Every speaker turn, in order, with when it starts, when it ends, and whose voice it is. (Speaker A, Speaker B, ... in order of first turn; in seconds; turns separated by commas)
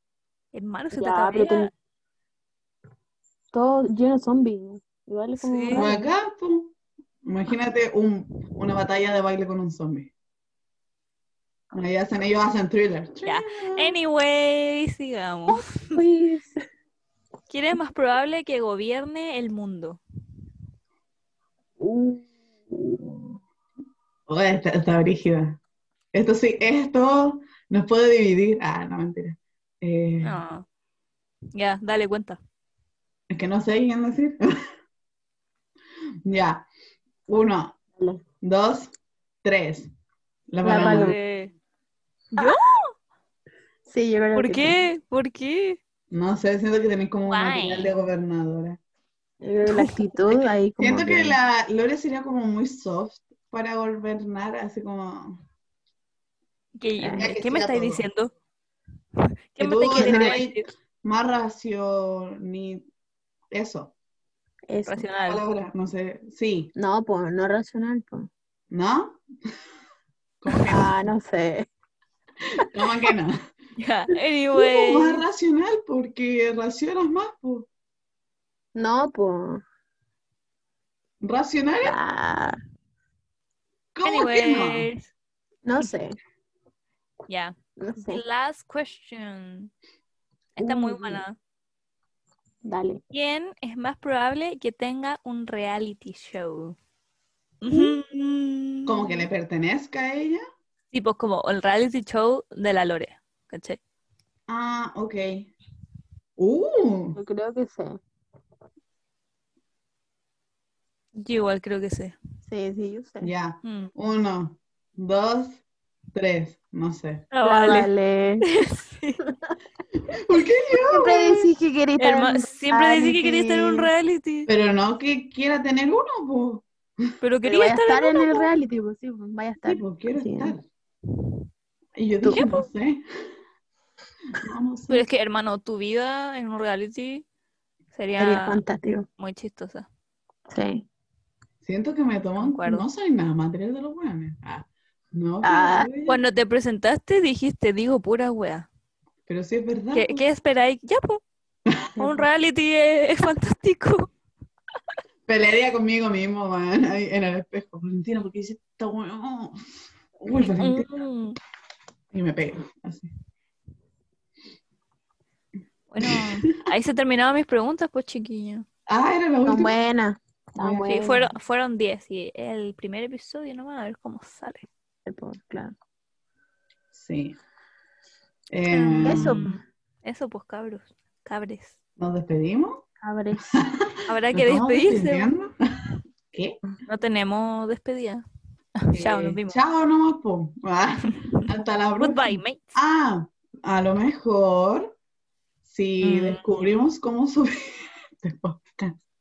Speaker A: 0.5-1.7, Speaker B: 0.9-1.7, Speaker B: 3.5-6.1, Speaker A: 5.4-5.9, Speaker C: 5.7-10.1, Speaker C: 11.7-13.9, Speaker A: 13.2-15.9, Speaker B: 15.5-16.6, Speaker A: 17.5-20.0, Speaker B: 21.8-23.3, Speaker C: 24.3-25.6, Speaker C: 26.1-30.4, Speaker A: 30.2-30.6, Speaker A: 31.5-32.4, Speaker C: 33.3-34.4, Speaker C: 36.2-36.7, Speaker C: 37.3-37.8, Speaker C: 38.4-39.9, Speaker C: 40.5-41.1, Speaker B: 40.6-41.1, Speaker A: 40.7-41.5, Speaker A: 42.3-42.9, Speaker B: 43.9-44.8, Speaker A: 44.3-45.8, Speaker C: 46.1-48.8, Speaker A: 47.2-47.9, Speaker B: 49.4-51.4, Speaker C: 50.8-55.4, Speaker A: 56.8-58.3, Speaker B: 57.0-57.3, Speaker C: 57.1-58.0, Speaker A: 59.5-60.7, Speaker C: 59.6-62.8, Speaker B: 59.9-60.4, Speaker C: 63.5-63.9, Speaker B: 64.7-65.1, Speaker A: 64.8-65.4, Speaker C: 65.2-66.7, Speaker B: 66.8-68.3, Speaker C: 68.7-69.2, Speaker C: 70.4-71.0, Speaker B: 70.7-71.7, Speaker C: 72.7-73.3, Speaker A: 73.8-75.2, Speaker C: 74.5-77.7, Speaker B: 78.7-79.6, Speaker C: 81.2-82.0, Speaker B: 81.8-82.6, Speaker C: 83.9-84.9, Speaker A: 84.0-85.0, Speaker B: 85.6-86.2, Speaker A: 87.3-89.7, Speaker B: 87.8-88.2, Speaker A: 90.5-91.4, Speaker B: 90.6-91.2, Speaker B: 92.6-93.0, Speaker A: 93.1-96.8, Speaker A: 97.6-99.2, Speaker B: 97.7-98.0, Speaker C: 98.8-100.4, Speaker A: 100.9-103.8, Speaker C: 104.5-105.5, Speaker C: 106.4-107.2, Speaker B: 107.1-107.9, Speaker A: 111.2-112.2, Speaker B: 112.5-113.3, Speaker C: 113.2-117.2, Speaker A: 113.6-113.9, Speaker A: 117.3-117.9, Speaker B: 117.4-118.4, Speaker A: 118.5-119.2, Speaker C: 120.1-121.5, Speaker B: 120.8-123.9, Speaker A: 122.0-124.5, Speaker C: 124.5-126.7, Speaker A: 127.2-128.5, Speaker B: 127.4-130.6, Speaker C: 129.6-130.6, Speaker C: 132.0-133.0, Speaker A: 132.3-132.7, Speaker C: 134.4-135.0, Speaker A: 134.9-137.2, Speaker A: 137.9-138.6, Speaker B: 138.2-139.1, Speaker A: 139.2-139.9, Speaker B: 140.5-140.8, Speaker C: 141.6-146.2, Speaker A: 142.4-142.8, Speaker B: 145.4-145.9, Speaker A: 146.1-148.7, Speaker C: 149.2-150.2, Speaker A: 149.9-151.2, Speaker B: 152.0-152.3, Speaker A: 152.0-154.1, Speaker C: 155.3-159.6, Speaker C: 160.2-160.9, Speaker A: 160.5-161.4, Speaker C: 162.1-163.1, Speaker A: 165.9-168.7, Speaker C: 166.0-166.3, Speaker C: 168.9-169.8, Speaker B: 169.4-171.3, Speaker A: 170.6-174.7, Speaker B: 175.1-175.7, Speaker C: 176.9-177.3, Speaker C: 178.5-179.4, Speaker A: 178.7-181.8, Speaker B: 179.0-179.6, Speaker C: 182.0-182.8, Speaker B: 183.0-183.7, Speaker C: 183.6-185.5, Speaker A: 184.1-185.3, Speaker C: 186.3-186.6, Speaker A: 186.8-188.2, Speaker A: 188.8-189.6, Speaker C: 188.9-194.9, Speaker A: 191.1-191.4, Speaker A: 192.0-192.7, Speaker C: 195.6-199.0, Speaker A: 196.0-196.8